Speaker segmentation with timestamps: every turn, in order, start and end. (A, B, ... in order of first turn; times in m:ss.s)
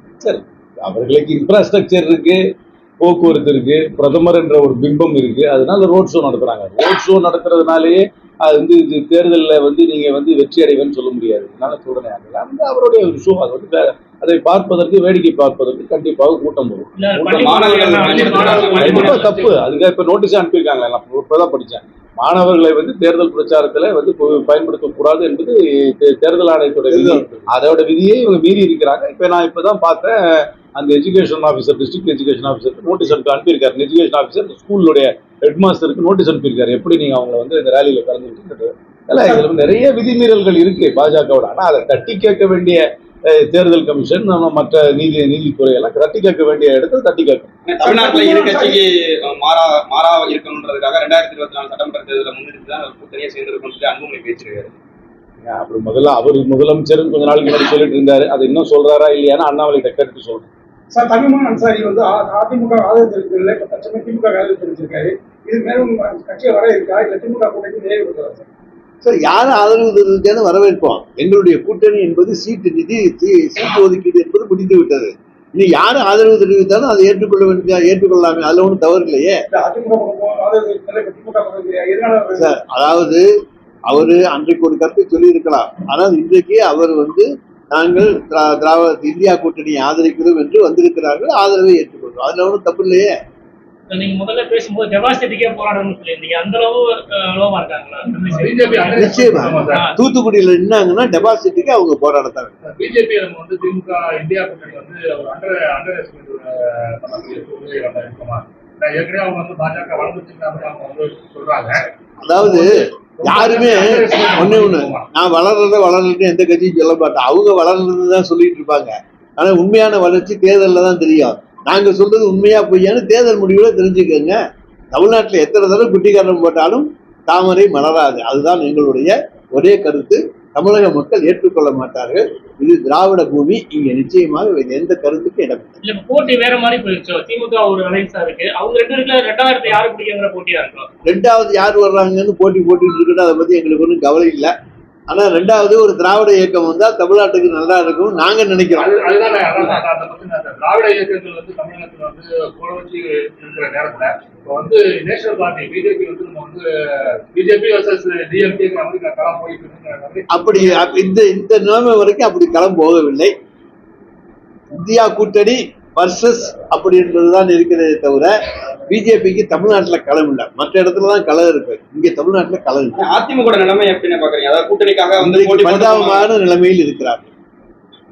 0:00.2-0:02.4 A
0:03.0-0:47.5 A
0:17.0-0:19.4 B
0:17.4-0:19.2 C
0:18.2-0:18.7 D
0:26.9-0:27.4 E
0:47.7-0:54.7 C
0:47.8-0:48.8 F
0:55.4-1:00.5 A
1:00.9-1:08.5 F
1:09.0-1:19.4 E
1:19.6-1:22.4 F
1:22.4-1:23.2 E
1:23.9-1:33.1 E
1:33.9-1:40.0 B
1:38.1-1:39.9 D
1:39.0-1:42.5 E
1:42.7-1:51.8 D
1:52.2-1:52.7 E
1:52.4-1:55.0 D
1:53.2-2:04.4 E
2:04.9-2:15.8 E
2:15.8-2:20.9 B
2:21.1-2:24.5 E
2:25.1-2:28.9 E
2:28.8-2:40.8 D
2:40.3-2:43.3 E
2:44.7-2:48.3 E
2:48.9-2:53.0 E
2:53.0-2:56.3 C
2:55.2-2:57.2 E